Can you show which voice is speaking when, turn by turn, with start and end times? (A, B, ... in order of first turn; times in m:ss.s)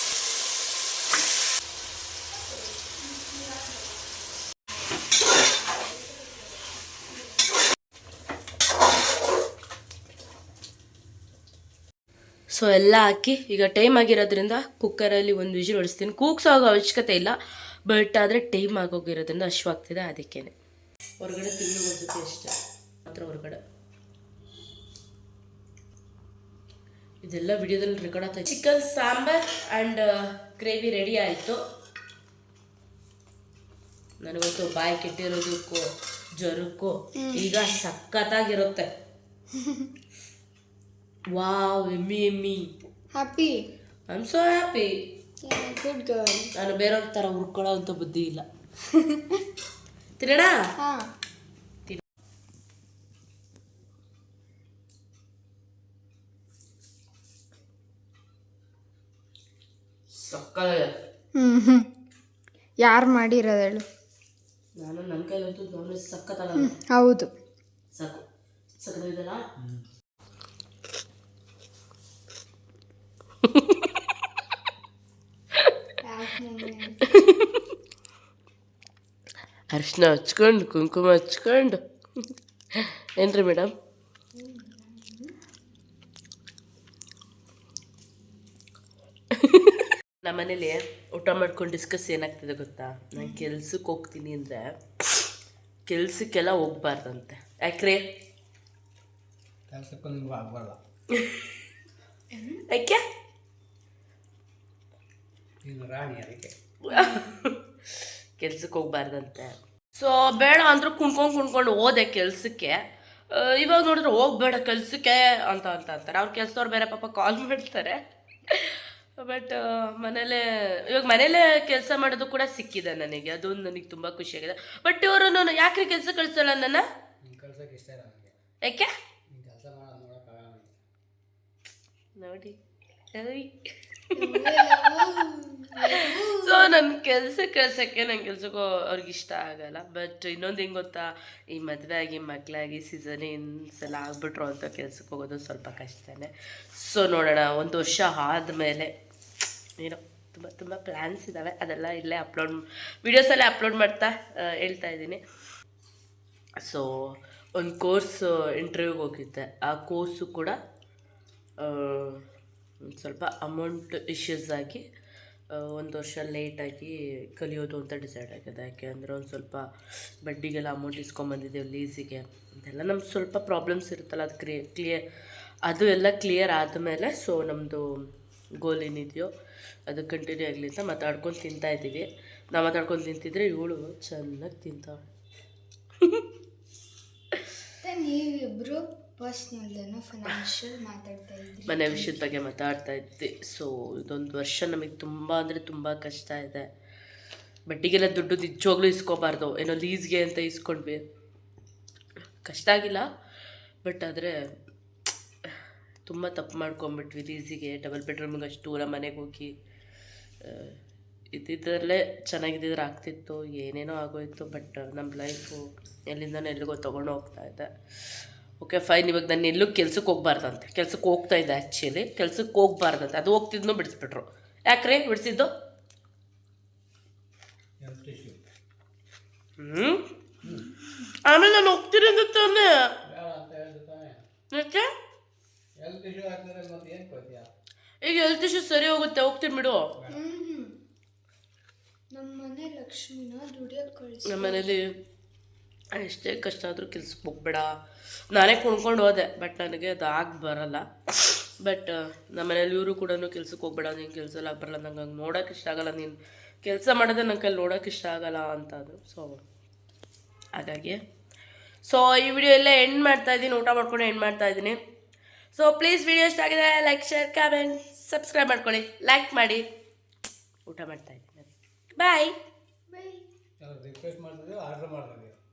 0:12.5-0:17.4 A
0:17.9-0:20.5 A
0:21.2-0:22.5 A
0:23.1-0:23.6 A
0:27.2-0:31.6 A
0:34.2-0:38.9 A
0:37.2-0:37.5 B
0:39.6-0:39.9 B
0:41.3-0:42.7 A
0:43.2-0:43.6 B
0:44.1-0:44.9 A
0:45.4-0:46.5 B
0:46.6-0:48.4 A
0:49.0-0:49.4 B
0:50.2-0:50.6 A
1:00.1-1:00.9 A
1:01.4-1:01.8 B
1:02.8-1:03.8 B
1:04.8-1:06.8 A
1:06.6-1:07.3 B
1:07.9-1:08.2 A
1:08.8-1:09.4 A
1:13.4-1:14.0 A
1:16.1-1:17.0 B
1:17.1-1:17.6 A
1:19.7-1:21.8 A
1:22.8-1:23.7 A
1:24.4-1:25.3 B
1:29.4-1:35.3 A
1:33.2-1:33.5 B
1:35.9-1:38.1 A
1:39.7-1:40.8 C
1:41.2-1:41.4 A
1:42.3-1:42.6 B
1:42.7-1:43.0 A
1:45.6-1:46.5 C
1:46.8-2:06.9 A
1:46.9-1:47.2 B
2:07.2-2:08.4 C
2:08.6-2:08.9 A
2:09.3-2:10.8 C
2:12.2-2:12.6 A
2:13.1-2:13.6 A
2:14.2-2:14.6 A
2:14.2-2:16.8 B
2:15.9-2:28.9 A
2:29.8-2:35.2 A
2:36.6-2:40.6 A
2:41.6-2:42.2 A
2:42.8-2:44.8 A
2:45.5-2:49.7 A
2:50.2-2:55.0 A
2:55.6-2:57.9 A
2:58.6-2:59.3 A
2:59.9-3:05.0 A
3:07.8-3:12.2 B
3:11.7-3:16.7 A
3:17.7-3:21.0 A
3:22.4-3:23.1 A
3:23.8-3:24.4 A
3:25.5-3:29.5 A
3:30.4-3:30.8 A
3:31.3-3:37.7 A
3:38.6-3:45.5 A
3:47.8-3:48.4 C
3:49.6-3:50.0 A
3:50.9-3:52.9 A
3:53.0-3:54.2 C
3:54.5-3:54.9 A
3:55.8-3:57.5 C
3:58.0-3:59.9 A
4:00.1-4:00.7 B
4:02.1-4:04.7 B
4:04.3-4:04.9 A
4:05.9-4:07.7 A
4:08.3-4:19.4 A
4:20.6-4:21.0 A
4:21.8-4:24.8 A
4:25.5-4:29.6 A
4:30.7-4:32.4 A
4:32.9-4:33.2 B
4:33.6-4:35.4 C